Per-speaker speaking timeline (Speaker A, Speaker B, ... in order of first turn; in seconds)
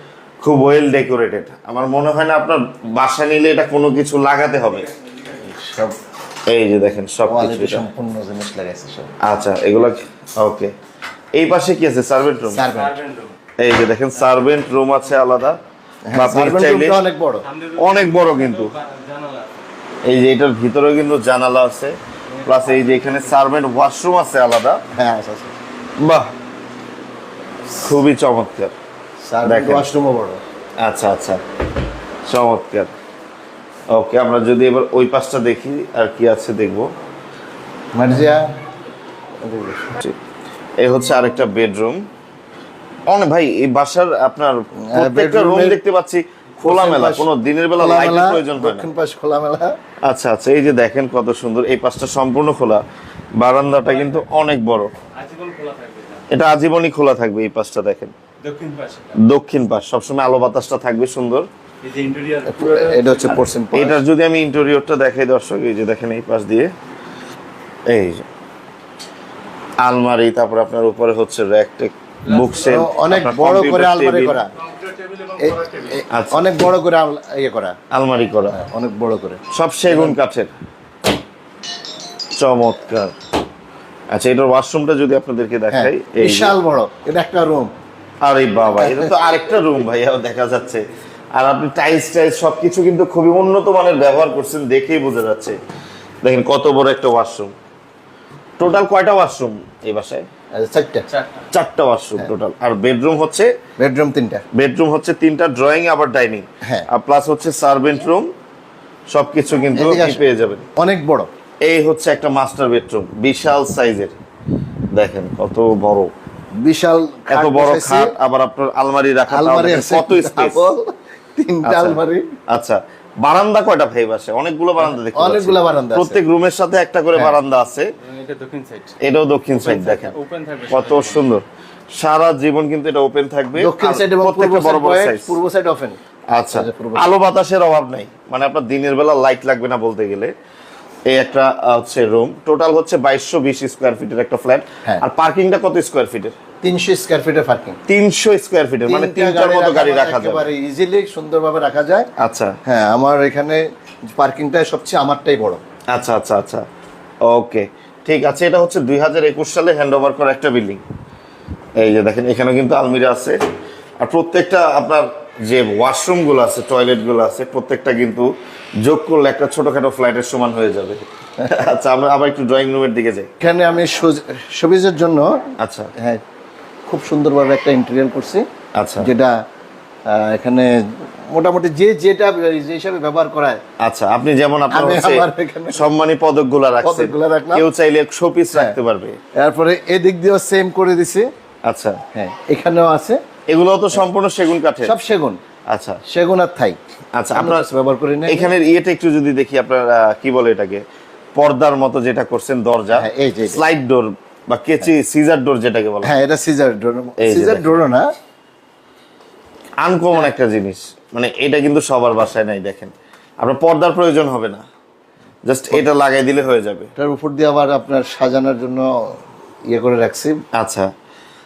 Speaker A: 0.4-4.9, 6.5-7.9, 9.2-10.7, 11.3-12.7, 13.6-15.6, 16.1-17.0, 17.8-18.8, 20.0-24.8, 26.0-26.3, 27.7-28.7, 29.4-29.9, 30.8-31.4, 32.3-32.9, 33.9-36.9, 40.8-42.0, 43.1-48.9, 50.0-52.9, 53.4-54.9, 56.3-58.1, 59.1-61.5, 63.7-66.7, 67.9-68.3, 69.8-74.4, 76.1-76.5, 77.9-78.6, 79.5-80.5, 82.3-83.1, 84.1-86.5, 88.2-95.6, 96.2-97.5, 98.6-100.3, 101.5-103.5, 104.5-108.3, 109.1-110.7, 111.6-114.2, 114.9-116.1, 117.3-120.7, 121.6-127.9, 129.0-130.2, 130.7-135.4, 136.3-140.3, 141.1-146.3, 147.9-150.5, 152.2-152.6, 155.9-156.7, 157.2-160.8, 161.8-163.4, 164.0-168.3, 168.8-173.3, 175.6-175.9, 178.8-179.1, 183.8-189.2, 191.6-192.0, 193.5-194.9, 195.7-196.0, 197.2-197.7, 198.3-200.8, 201.4-206.1, 207.2-207.7, 209.8-214.7, 215.5-216.9, 220.5-220.9
Speaker B: 5.3-6.0, 7.3-9.1, 12.5-13.0, 16.1-17.5, 24.9-25.6, 29.3-30.4, 38.0-38.5, 39.4-40.0, 44.9-45.8, 46.6-49.8, 62.5-64.0, 72.6-74.5, 75.4-77.8, 78.5-80.2, 85.7-87.7, 88.7-89.1, 100.5-101.1, 103.8-104.4, 109.7-110.2, 110.8-111.3, 116.6-118.1, 119.3-122.3, 124.8-126.2, 133.6-136.0, 136.5-137.1, 146.6-147.8, 148.9-152.1, 152.7-153.6, 154.2-155.6, 173.4-175.4, 176.9-178.5, 179.0-179.3, 180.1-183.6, 184.7-185.8, 186.8-187.7, 189.4-191.3, 192.1-193.2, 194.8-195.4, 196.1-196.8, 197.3-198.5, 202.9-203.6, 206.0-208.1, 217.0-218.9, 219.7-220.4
Speaker C: 12.6-13.3, 17.5-19.6, 22.4-23.3, 53.9-54.2, 55.2-56.2, 58.4-59.2, 61.8-63.4, 72.3-72.6, 74.7-76.0, 128.0-129.0, 129.5-131.2